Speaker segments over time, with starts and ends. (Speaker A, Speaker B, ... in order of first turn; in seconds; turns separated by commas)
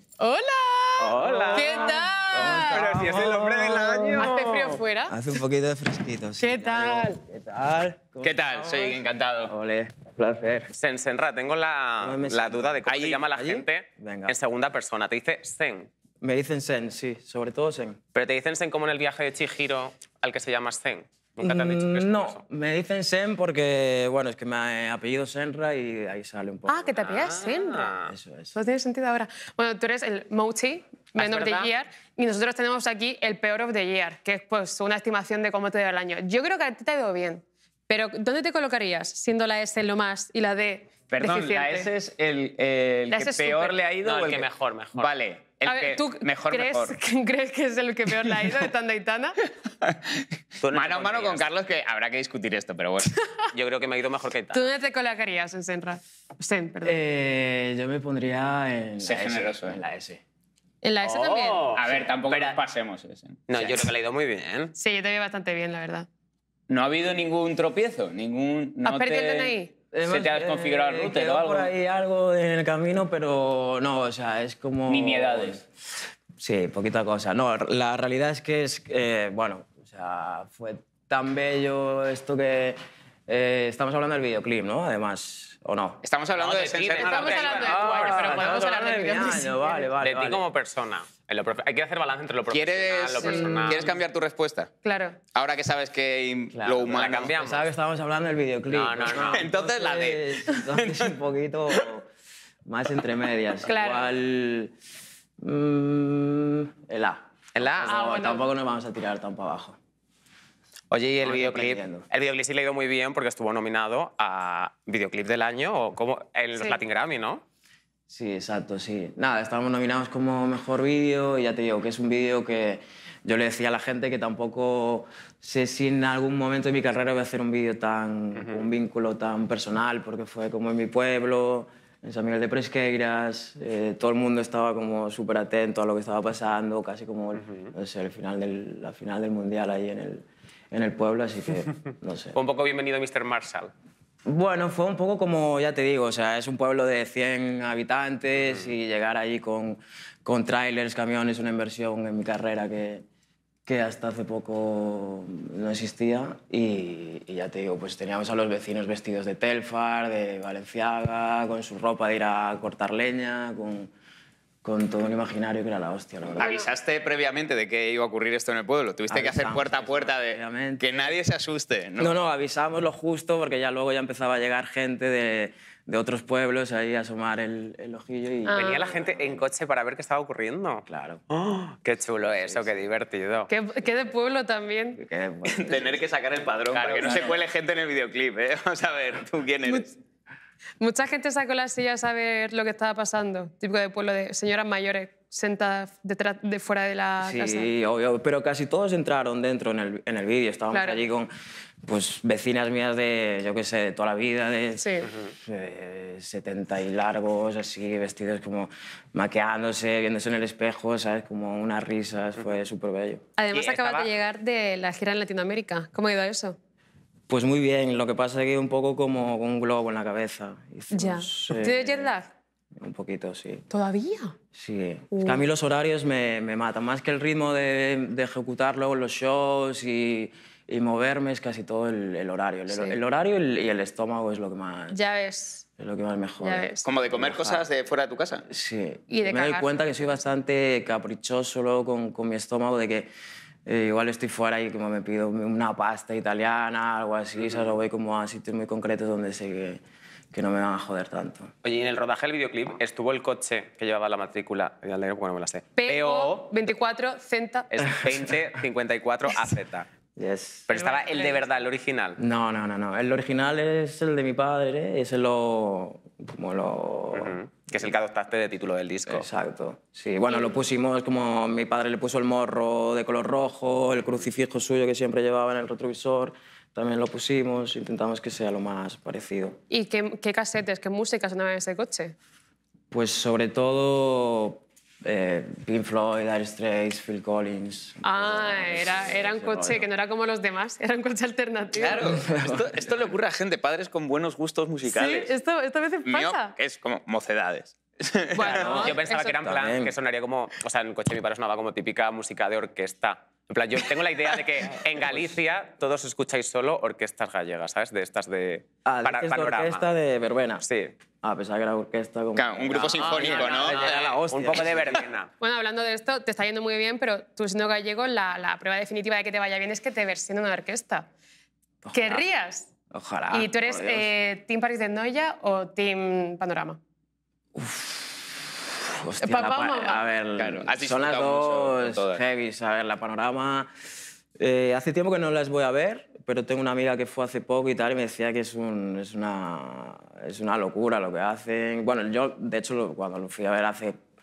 Speaker A: 0.2-2.8, Speaker B: 1.0-4.3, Speaker C: 1.0-1.9, Speaker C: 2.7-4.3, Speaker D: 2.7-4.3, Speaker A: 4.2-5.2, Speaker B: 5.1-10.7, Speaker A: 6.4-7.2, Speaker D: 8.2-9.5, Speaker C: 10.7-15.9, Speaker B: 12.0-14.3, Speaker D: 12.8-13.2, Speaker B: 16.2-18.0, Speaker C: 18.1-22.4, Speaker B: 21.4-26.9, Speaker A: 26.7-27.9, Speaker C: 27.0-28.1, Speaker B: 28.0-28.5, Speaker A: 28.5-41.9, Speaker C: 31.1-31.7, Speaker D: 41.1-46.9, Speaker A: 43.1-43.8, Speaker C: 44.0-45.1, Speaker A: 45.6-49.4, Speaker D: 49.8-53.1, Speaker C: 50.6-51.5, Speaker C: 53.5-54.7, Speaker A: 54.5-57.0, Speaker B: 56.8-60.2, Speaker D: 59.0-59.8, Speaker A: 60.8-61.6, Speaker C: 61.0-62.6, Speaker D: 61.7-63.7, Speaker C: 63.5-64.7, Speaker A: 64.8-66.1, Speaker D: 66.7-71.7, Speaker A: 68.8-69.7, Speaker B: 69.9-75.6, Speaker D: 74.9-75.6, Speaker B: 76.4-86.0, Speaker D: 86.0-87.9, Speaker C: 86.3-88.7, Speaker A: 87.0-89.9, Speaker B: 87.8-90.4, Speaker C: 90.0-94.0, Speaker D: 92.5-94.7, Speaker A: 94.8-95.2, Speaker D: 95.3-97.3, Speaker B: 96.5-102.1, Speaker C: 96.9-97.7, Speaker C: 98.7-99.4, Speaker D: 99.1-101.1, Speaker B: 102.7-104.7, Speaker A: 103.6-104.1, Speaker B: 105.4-109.8, Speaker C: 107.5-107.9, Speaker A: 107.8-108.5, Speaker C: 110.9-117.4, Speaker B: 111.2-112.0, Speaker B: 118.1-142.4, Speaker C: 128.3-128.7, Speaker C: 137.4-137.7, Speaker C: 142.3-143.7, Speaker B: 144.2-153.0, Speaker B: 153.7-163.9, Speaker B: 164.6-166.6, Speaker D: 166.4-172.1, Speaker A: 166.4-166.7, Speaker B: 169.1-171.1, Speaker B: 172.0-179.4, Speaker A: 178.4-178.8, Speaker C: 178.6-183.5, Speaker B: 180.8-181.2, Speaker A: 183.5-185.0, Speaker B: 184.9-186.0, Speaker D: 185.5-189.9, Speaker C: 186.7-187.4, Speaker A: 190.8-197.7, Speaker B: 197.2-201.3, Speaker A: 200.7-201.0, Speaker B: 201.8-213.2, Speaker A: 204.8-205.1, Speaker A: 213.4-216.6, Speaker C: 213.5-214.1, Speaker B: 217.3-222.1, Speaker A: 220.9-222.3, Speaker B: 222.8-223.6, Speaker A: 223.7-224.3, Speaker B: 224.5-235.0, Speaker A: 225.1-225.4, Speaker A: 232.7-233.0, Speaker A: 234.9-235.6, Speaker B: 235.8-237.6, Speaker A: 236.4-236.8, Speaker D: 236.8-238.4, Speaker B: 238.5-243.1, Speaker A: 239.1-239.7, Speaker B: 243.7-251.5, Speaker C: 251.6-256.7, Speaker A: 255.8-257.7, Speaker C: 257.7-259.9, Speaker B: 258.0-258.3, Speaker B: 260.1-260.7, Speaker C: 260.7-262.2, Speaker A: 260.7-261.6, Speaker B: 262.2-267.4, Speaker C: 267.1-269.3, Speaker B: 269.1-279.6, Speaker A: 279.7-282.1, Speaker B: 282.9-289.9, Speaker A: 288.0-292.0, Speaker D: 291.7-295.3, Speaker B: 292.0-292.8, Speaker A: 294.9-296.5, Speaker D: 296.1-298.9, Speaker A: 298.3-299.4, Speaker B: 298.5-299.9, Speaker C: 298.5-309.8, Speaker B: 308.8-310.6, Speaker C: 310.6-310.9, Speaker B: 311.2-315.0, Speaker D: 312.4-313.9, Speaker C: 312.9-315.3, Speaker A: 315.4-321.1, Speaker B: 321.8-322.2, Speaker A: 321.9-322.7, Speaker B: 322.9-324.1, Speaker A: 323.3-326.8, Speaker B: 327.5-333.7, Speaker A: 329.2-330.0, Speaker D: 330.4-332.2, Speaker B: 334.4-344.0